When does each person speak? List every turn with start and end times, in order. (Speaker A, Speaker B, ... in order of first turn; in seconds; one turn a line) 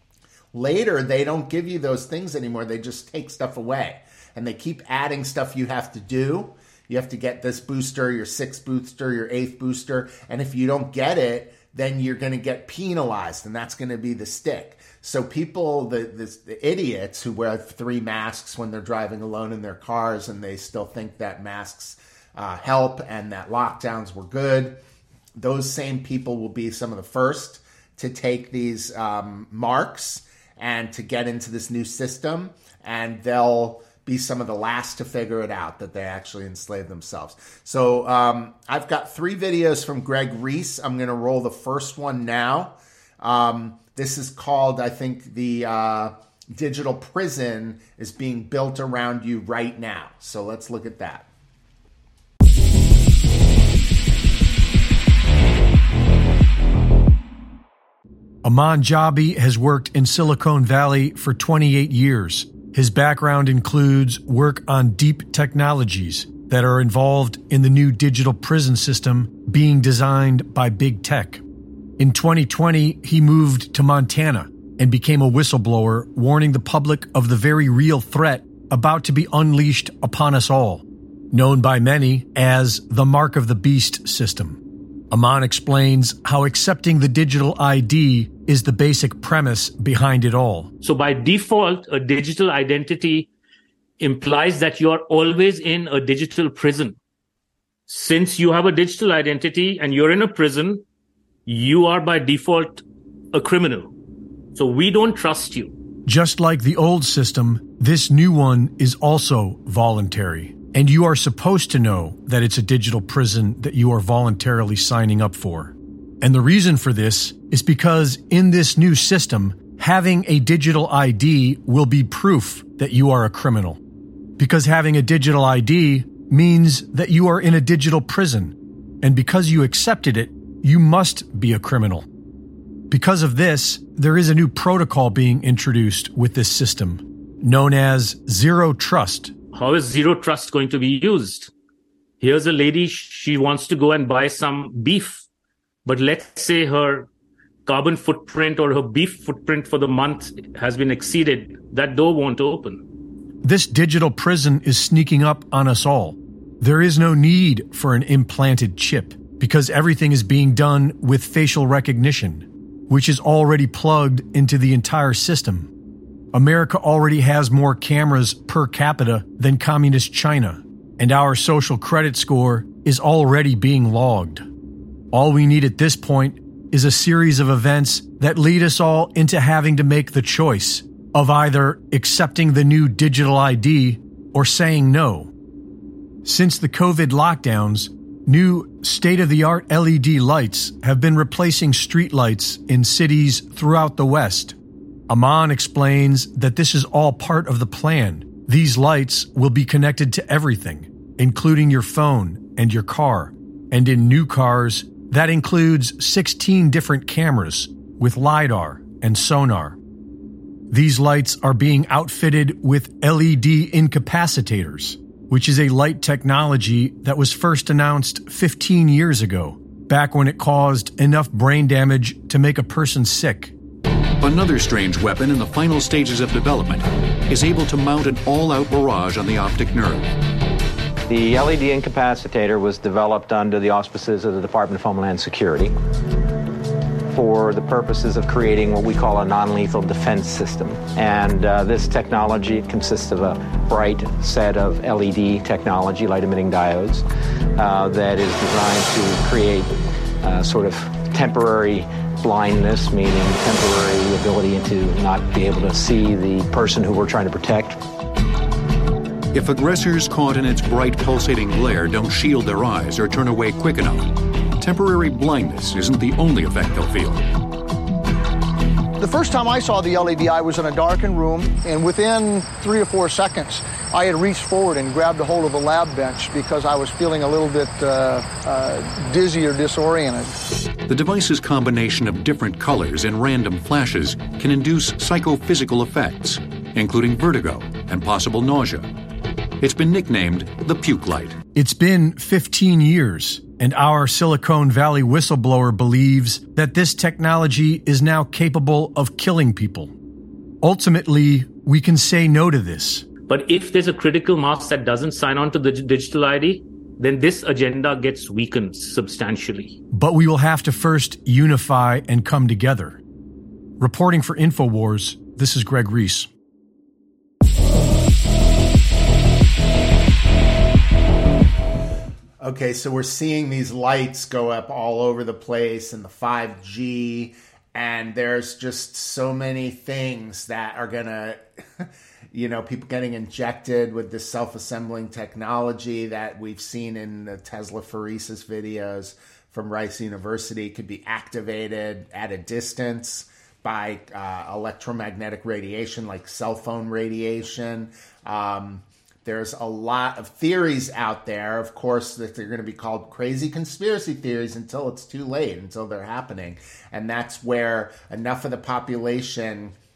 Speaker A: 0.5-24.8
Speaker A: 25.4-51.3
Speaker B: 58.4-71.4
Speaker B: 72.0-84.6
Speaker B: 85.1-90.7
Speaker C: 90.8-93.3
Speaker C: 94.0-97.0
Speaker C: 97.9-100.8
Speaker C: 101.5-103.9
Speaker C: 104.5-105.7
Speaker B: 106.0-123.8
Speaker B: 124.4-132.1
Speaker B: 132.9-139.3
Speaker C: 139.5-141.5
Speaker C: 142.2-145.3
Speaker C: 145.8-147.1
Speaker C: 147.7-152.8
Speaker B: 153.4-165.7
Speaker B: 166.3-174.4
Speaker B: 175.1-185.3
Speaker B: 186.2-194.6
Speaker B: 195.1-209.8
Speaker B: 210.7-223.5
Speaker D: 224.2-230.1
Speaker E: 231.1-235.7
Speaker E: 237.1-247.0
Speaker E: 247.6-257.8
Speaker D: 259.3-267.2
Speaker F: 269.0-280.4
Speaker D: 280.9-288.9
Speaker D: 289.6-291.4
Speaker B: 291.5-299.9
Speaker B: 300.6-303.1
Speaker C: 303.3-309.8
Speaker B: 309.9-313.0
Speaker B: 313.8-316.3
Speaker A: 322.4-359.7